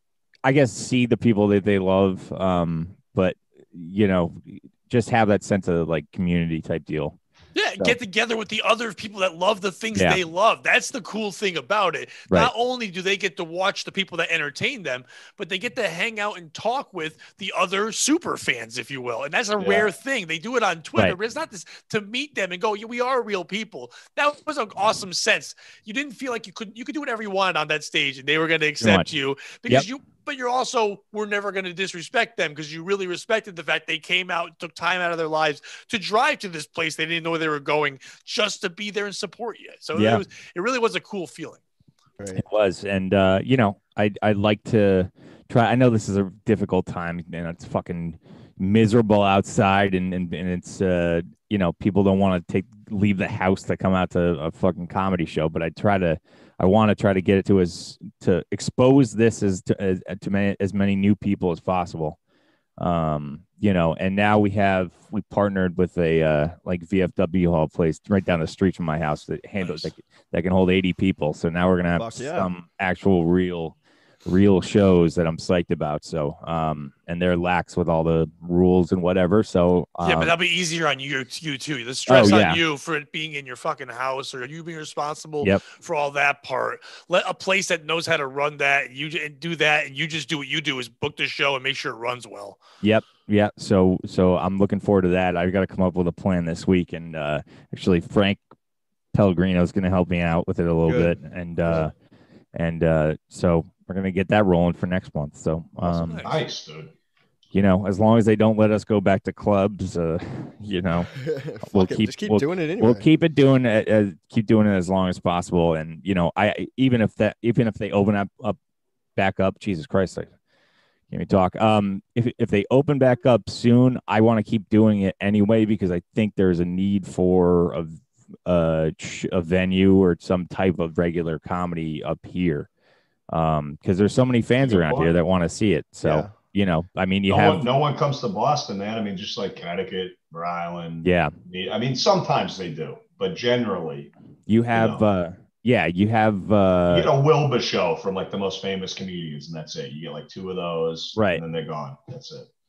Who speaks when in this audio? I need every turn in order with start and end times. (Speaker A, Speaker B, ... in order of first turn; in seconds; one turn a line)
Speaker A: 0.4-7.2
Speaker B: 7.5-41.6
Speaker A: 9.9-10.2
Speaker C: 19.6-19.9
Speaker A: 28.8-29.1
Speaker A: 39.9-40.2
Speaker D: 42.2-42.4
Speaker A: 42.3-62.2
Speaker A: 62.8-80.3
Speaker B: 69.6-69.9
Speaker D: 72.0-72.5
Speaker B: 80.0-92.6
Speaker A: 82.1-82.6
Speaker A: 92.8-98.4
Speaker A: 99.1-101.9
Speaker D: 100.9-101.9
Speaker A: 102.5-106.2
Speaker B: 105.8-106.4
Speaker C: 106.2-106.9
Speaker A: 107.5-111.1
Speaker D: 111.1-113.1
Speaker A: 111.7-118.6
Speaker A: 119.2-120.3
Speaker A: 121.1-132.7
Speaker A: 133.3-137.7
Speaker C: 134.6-135.1
Speaker D: 136.0-136.3
Speaker C: 137.3-144.1
Speaker A: 141.0-141.3
Speaker A: 144.5-147.1
Speaker C: 144.7-145.0
Speaker C: 146.9-152.5
Speaker A: 151.2-151.4